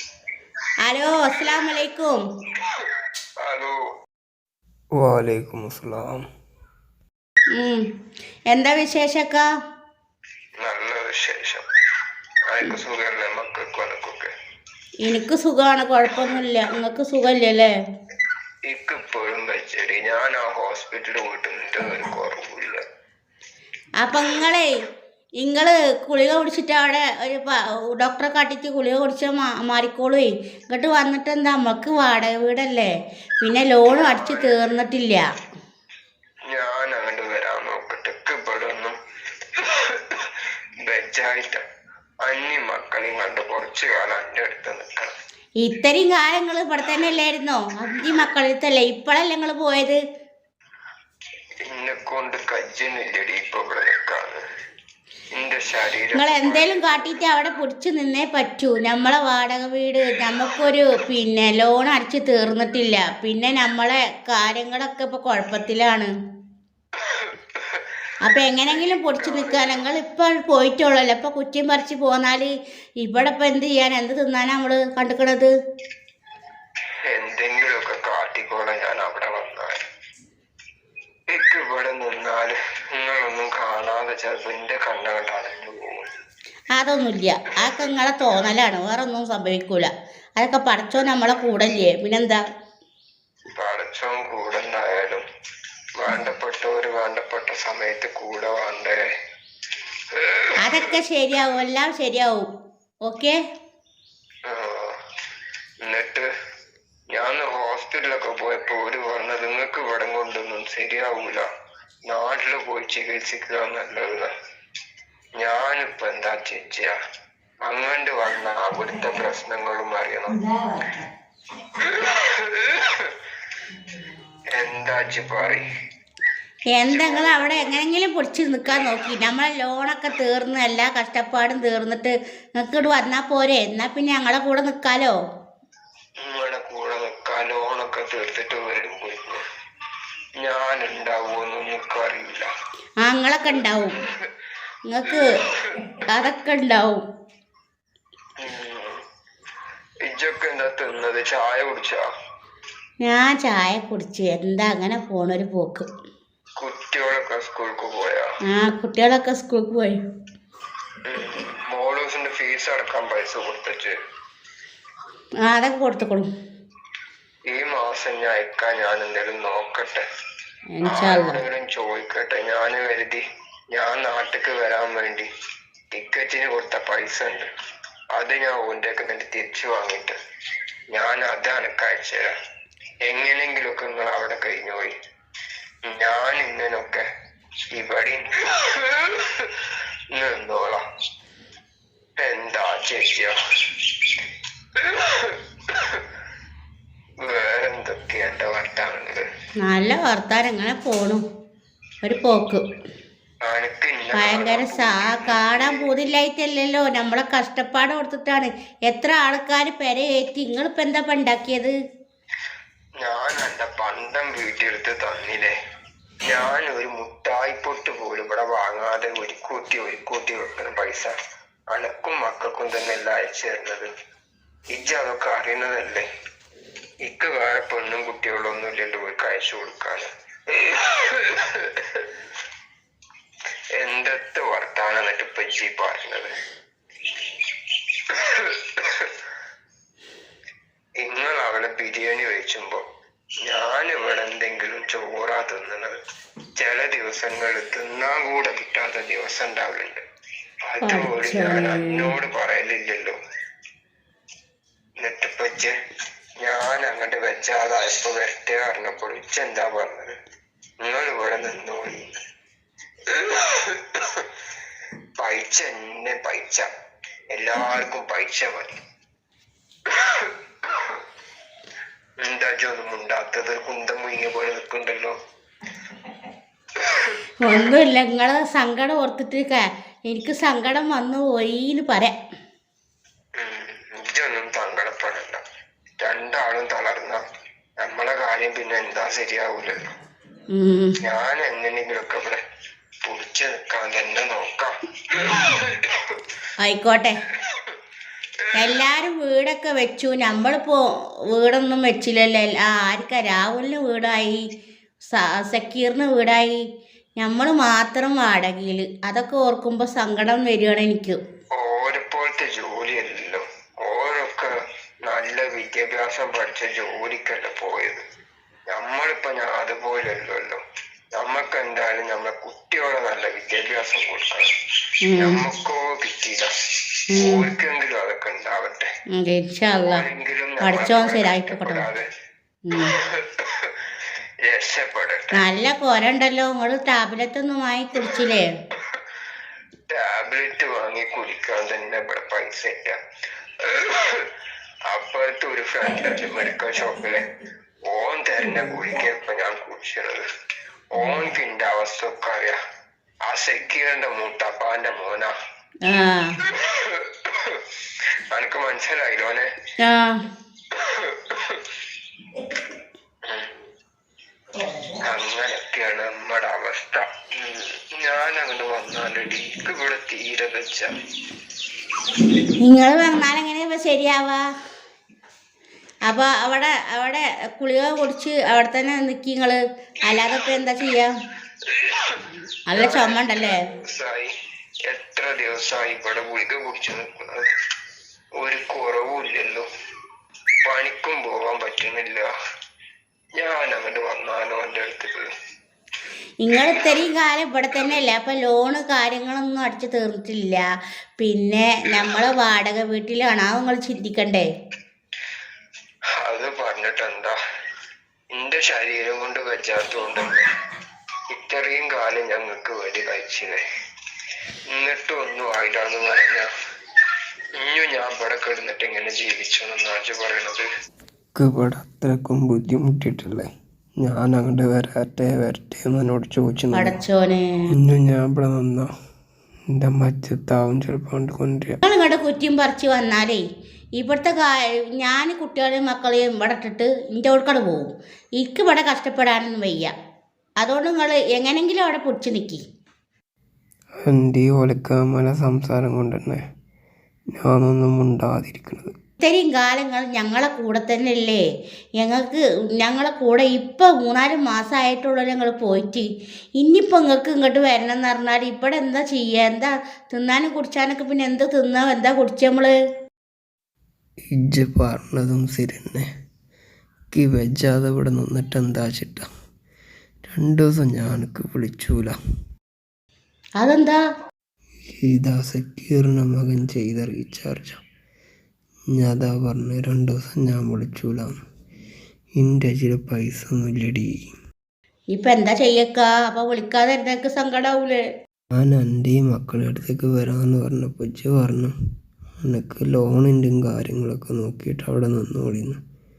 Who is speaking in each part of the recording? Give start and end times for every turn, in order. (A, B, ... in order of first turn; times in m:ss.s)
0:00.8-0:02.2 A
0:03.4-0:03.8 B
0:05.0-0:06.2 C
0:07.6-0:07.8 A
0:08.5-0:09.4 A
0:10.6-0:11.6 B
0:12.5-0:14.3 B
0:15.0-0:17.7 A
0:18.7-0:22.8 B
0:24.0-0:24.7 A
0:25.4-0:32.9 A
0:33.4-0:35.2 A
0:33.9-0:34.5 B
0:36.5-0:39.0 B
0:39.6-0:40.3 B
0:40.8-0:41.6 B
0:42.2-0:45.1 B
0:45.6-0:50.0 A
0:51.7-0:54.4 B
0:55.3-0:57.0 B
0:56.1-1:06.1 A
1:07.1-1:07.8 B
1:08.2-1:12.5 A
1:08.7-1:09.8 B
1:13.0-1:15.5 A
1:17.1-1:19.8 B
1:21.3-1:26.1 B
1:26.8-1:32.4 A
1:33.6-1:35.2 B
1:36.0-1:39.0 B
1:40.2-1:40.6 B
1:40.6-1:42.5 A
1:43.1-1:43.4 A
1:44.5-1:44.9 B
1:45.8-1:46.2 B
1:47.1-1:51.4 B
1:52.1-1:54.3 B
1:55.4-1:56.9 B
1:57.7-2:00.4 B
2:01.8-2:03.1 B
2:04.5-2:05.7 B
2:06.7-2:15.1 A
2:06.9-2:07.8 B
2:08.8-2:09.1 B
2:16.2-2:19.4 B
2:20.4-2:22.5 B
2:23.0-2:23.9 A
2:23.7-2:24.2 B
2:24.9-2:25.3 A
2:25.1-2:26.0 B
2:26.1-2:27.0 A
2:28.4-2:29.0 B
2:30.1-2:32.0 B
2:33.0-2:35.9 A
2:36.6-2:38.3 B
2:38.5-2:40.0 A
2:41.0-2:43.9 B
2:45.4-2:46.3 A
2:47.5-2:50.0 B
2:50.8-2:51.4 A
2:50.9-2:53.2 B
2:53.7-2:55.3 B
2:55.9-2:57.5 B
2:58.2-3:00.2 B
3:00.9-3:02.3 B
3:03.0-3:05.0 B
3:05.9-3:07.0 B
3:07.7-3:10.8 B
3:12.2-3:13.3 B
3:14.8-3:16.0 B
3:17.2-3:19.2 B
3:19.6-3:21.2 A
3:22.0-3:22.6 A
3:23.4-3:25.9 B
3:24.1-3:31.7 A
3:33.0-3:35.5 B
3:36.2-3:41.1 B
3:41.7-3:43.9 B
3:44.7-3:46.1 B
3:47.0-3:52.0 B
3:53.8-3:56.3 B
3:58.1-3:59.1 B
4:01.0-4:02.8 B
4:03.4-4:05.9 B
4:06.6-4:10.0 B
4:10.7-4:13.2 B
4:10.8-4:12.1 A
4:15.0-4:15.7 B
4:16.4-4:20.2 B
4:20.8-4:22.1 B
4:23.1-4:24.2 B
4:25.2-4:26.7 B
4:27.3-4:28.8 B
4:29.9-4:30.9 B
4:32.2-4:35.2 B
4:36.8-4:37.1 B
4:37.4-4:42.1 A
4:43.4-4:45.4 B
4:46.0-4:47.2 B
4:47.8-4:49.9 B
4:50.5-4:51.0 A
4:51.0-4:52.4 B
4:53.0-4:56.0 B
4:56.6-4:57.2 A
4:58.5-5:04.4 A
5:05.1-5:06.6 A
5:07.2-5:11.2 A
5:11.6-5:14.5 B
5:15.1-5:18.0 B
5:18.7-5:20.6 B
5:21.2-5:24.5 B
5:25.1-5:25.4 A
5:25.2-5:26.5 B
5:27.1-5:27.4 A
5:27.2-5:28.9 B
5:29.2-5:30.0 A
5:29.7-5:32.0 B
5:30.6-5:31.8 A
5:32.7-5:32.9 A
5:33.0-5:33.7 B
5:34.5-5:35.4 B
5:35.3-5:38.4 A
5:39.9-5:43.0 B
5:43.7-5:44.3 B
5:44.9-5:47.3 B
5:47.9-5:50.2 B
5:50.9-5:52.6 B
5:53.2-5:55.3 B
5:55.8-5:56.4 A
5:56.5-5:57.6 B
5:58.3-5:59.5 B
5:59.8-6:00.2 A
6:00.8-6:01.6 B
6:05.0-6:10.9 B
6:12.6-6:14.4 A
6:16.1-6:21.1 A
6:21.7-6:22.2 B
6:22.7-6:23.6 A
6:22.7-6:24.3 B
6:24.9-6:27.5 B
6:28.4-6:29.7 B
6:30.6-6:32.3 B
6:33.4-6:35.2 B
6:36.4-6:40.6 A
6:41.2-6:44.5 A
6:46.2-6:47.4 B
6:48.3-6:50.5 B
6:51.3-6:53.6 B
6:54.7-6:56.5 B
6:57.6-7:00.6 B
7:01.3-7:03.5 C
7:04.0-7:07.0 C
7:06.7-7:07.4 A
7:07.8-7:08.9 C
7:09.7-7:11.8 C
7:11.8-7:13.4 A
7:14.0-7:19.9 A
7:20.6-7:22.6 A
7:24.0-7:26.4 C
7:27.3-7:28.9 C
7:29.2-7:31.4 A
7:32.0-7:36.1 A
7:36.6-7:42.7 A
7:44.3-7:46.1 C
7:47.1-7:49.3 C
7:50.3-7:52.2 C
7:53.6-7:54.0 A
7:55.0-7:57.8 C
7:59.0-8:01.3 C
8:02.4-8:04.2 C
8:05.1-8:08.0 A
8:08.5-8:11.7 C
8:12.4-8:15.8 C